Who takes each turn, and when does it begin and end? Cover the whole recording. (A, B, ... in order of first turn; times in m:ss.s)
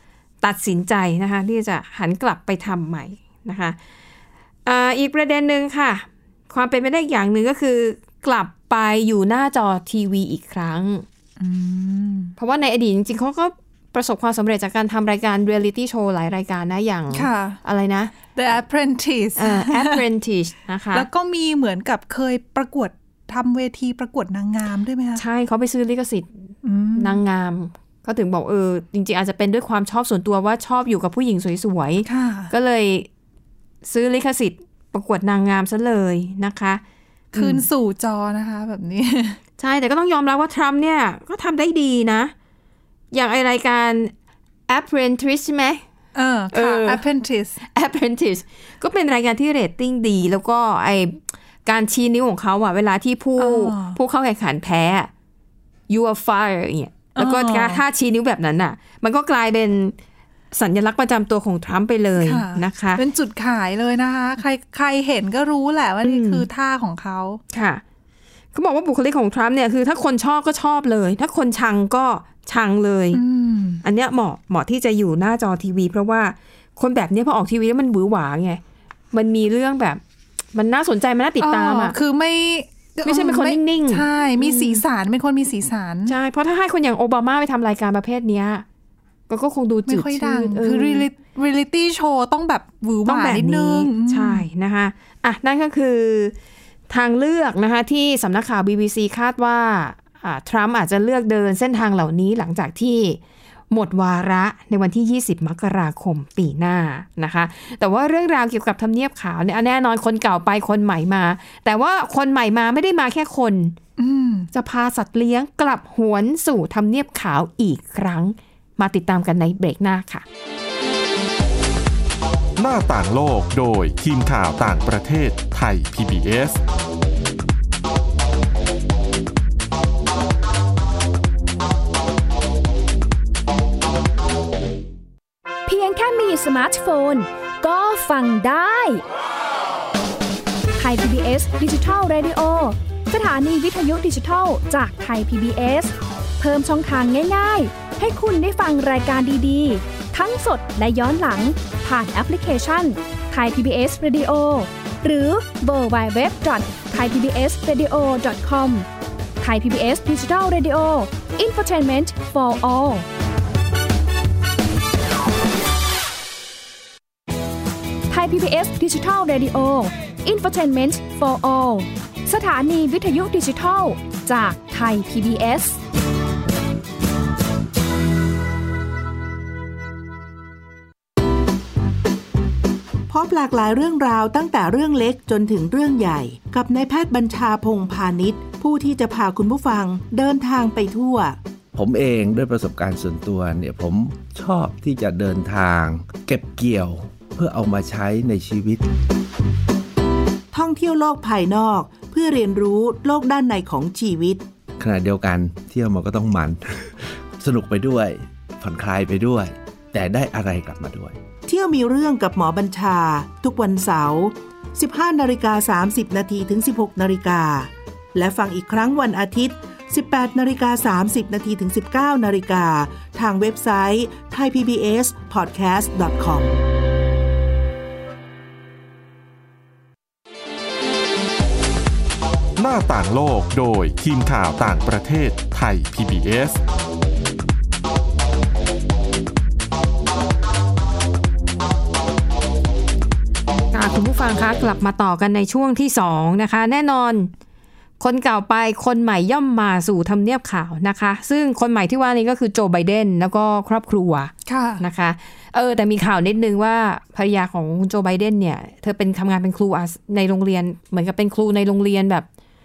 0:00.4-0:03.8 A
0:04.6-0:11.1 A
0:11.4-0:12.4 B
0:12.4-0:18.1 A
0:17.1-0:17.6 B
0:18.3-0:20.0 B
0:19.4-0:21.1 A
0:20.9-0:25.2 B
0:25.2-0:26.4 A
0:26.6-0:27.2 B
0:27.0-0:33.1 A
0:32.1-0:32.5 B
0:33.8-0:36.8 A
0:37.3-0:37.7 A
0:37.3-0:39.4 B
0:39.6-0:42.3 A
0:43.1-0:44.1 A
0:44.7-0:45.8 A
0:46.2-0:47.6 B
0:46.5-0:47.0 A
0:47.7-0:55.1 A
0:53.4-0:54.0 B
0:55.9-1:00.0 A
0:57.2-0:57.8 B
1:00.5-1:03.0 A
1:02.2-1:07.4 B
1:06.0-1:06.5 A
1:07.5-1:07.8 A
1:08.5-1:13.2 A
1:13.1-1:13.8 B
1:13.8-1:18.6 A
1:19.1-1:20.0 A
1:20.5-1:22.0 A
1:21.4-1:26.2 B
1:23.0-1:24.8 A
1:26.1-1:28.6 A
1:29.3-1:31.1 A
1:29.9-1:34.5 B
1:33.1-1:36.3 A
1:36.9-1:43.2 A
1:43.7-1:53.8 A
1:54.0-1:54.5 B
1:54.5-2:00.2 A
2:02.6-2:06.6 C
2:15.7-2:19.0 D
2:20.8-2:38.9 D
2:39.4-2:43.1 D
2:48.1-2:55.8 D
3:03.1-3:11.4 E
3:11.7-3:18.9 F
3:20.5-3:24.4 E
3:24.8-3:31.2 F
3:31.5-3:46.6 E
3:52.6-3:56.6 C
4:03.7-4:07.3 A
4:08.0-4:22.3 A
4:14.5-4:14.8 B